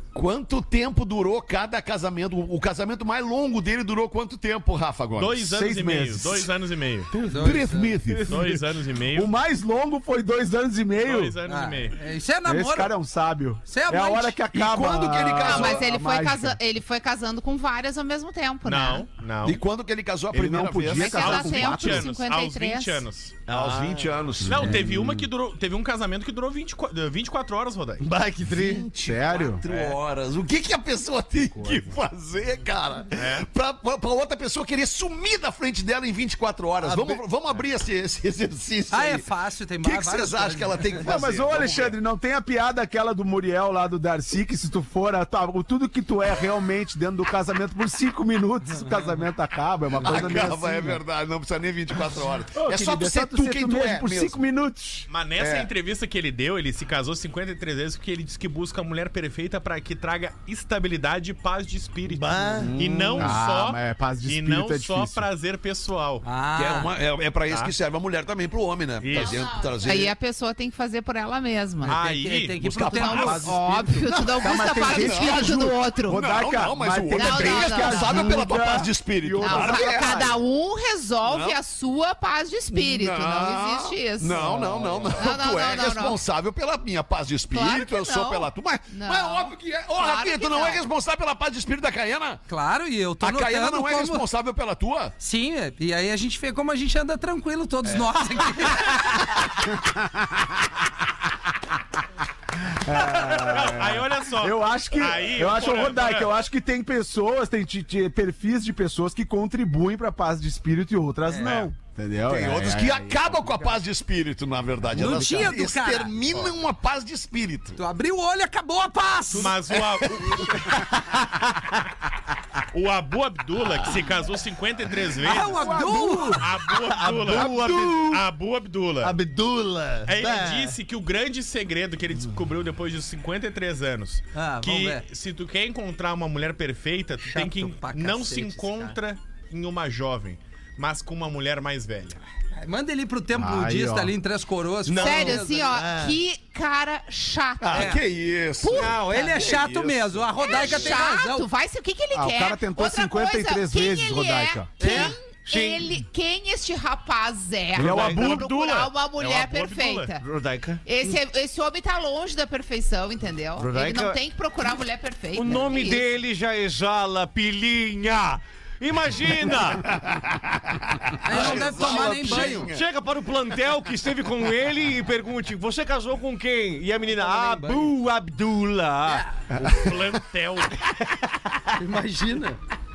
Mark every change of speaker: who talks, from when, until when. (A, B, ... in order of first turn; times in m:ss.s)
0:00.1-0:05.4 A
0:05.2-0:07.1 B
0:05.4-0:06.5 C
0:07.1-0:08.5 C
0:07.3-0:07.9 D
0:07.3-0:08.6 A
0:08.3-0:09.3 B
0:09.1-0:11.4 C
0:11.0-0:12.0 B
0:11.5-0:12.9 D
0:12.4-0:16.6 C
0:13.7-0:14.4 D
0:14.5-0:15.9 A
0:15.4-0:19.1 E
0:18.6-0:19.6 B
0:19.4-0:21.6 A
0:20.3-0:22.1 C
0:20.9-0:23.0 E
0:21.0-0:28.0 B
0:23.5-0:25.0 A
0:24.4-0:25.3 C
0:28.0-0:28.9 F
0:28.4-0:39.3 A
0:29.0-0:29.6 C
0:31.5-0:31.9 C
0:33.1-0:33.5 B
0:36.8-0:37.2 F
0:38.9-0:40.9 D
0:39.8-0:42.0 A
0:41.0-0:51.0 C
0:50.0-0:54.4 A
0:52.6-0:55.1 C
0:55.1-1:06.2 B
0:55.4-0:55.7 A
1:02.1-1:02.7 F
1:02.7-1:03.4 A
1:02.7-1:05.3 C
1:06.2-1:06.9 D
1:06.5-1:10.2 A
1:09.0-1:09.5 B
1:09.2-1:12.0 E
1:11.8-1:13.4 D
1:11.8-1:12.6 B
1:12.6-1:13.5 A
1:12.8-1:16.3 E
1:13.2-1:20.3 C
1:14.0-1:20.4 A
1:17.1-1:18.4 E
1:19.4-1:26.2 E
1:21.2-1:21.6 A
1:22.7-1:32.4 A
1:24.3-1:25.2 C
1:27.5-1:30.8 E
1:32.5-1:34.2 D
1:33.2-1:35.1 A
1:35.2-1:39.1 D
1:39.7-1:40.5 C
1:42.6-1:53.7 C
1:43.0-1:46.3 B
1:51.3-1:51.6 D
1:52.3-1:57.8 A
1:54.9-1:56.2 D
1:55.0-1:55.5 C
1:57.8-1:59.6 D
1:59.3-2:00.6 B
1:59.7-2:00.8 A
2:02.7-2:05.7 B
2:05.2-2:06.4 D
2:05.4-2:06.4 C
2:06.3-2:09.1 B
2:06.8-2:08.2 F
2:09.0-2:10.8 F
2:10.0-2:22.2 B
2:14.3-2:15.0 D
2:17.2-2:18.9 D
2:22.5-2:25.7 D
2:23.3-2:24.1 C
2:24.9-2:26.2 F
2:24.9-2:25.3 A
2:25.0-2:28.0 E
2:27.6-2:30.9 A
2:27.7-2:28.0 D
2:28.6-2:31.4 D
2:28.7-2:29.1 F
2:30.4-2:40.2 E
2:32.1-2:34.8 C
2:34.8-2:35.2 D
2:34.8-2:35.9 F
2:37.8-2:38.5 C
2:37.8-2:38.8 F
2:37.8-2:40.1 B
2:40.2-2:40.8 F
2:40.8-2:46.1 E
2:43.6-2:44.2 F
2:45.3-2:50.0 F
2:50.0-2:52.8 A
2:51.2-2:52.7 D
2:51.3-3:00.0 F
2:57.1-2:57.9 D
2:59.6-3:00.8 B
3:00.8-3:01.6 F
3:01.7-3:02.6 D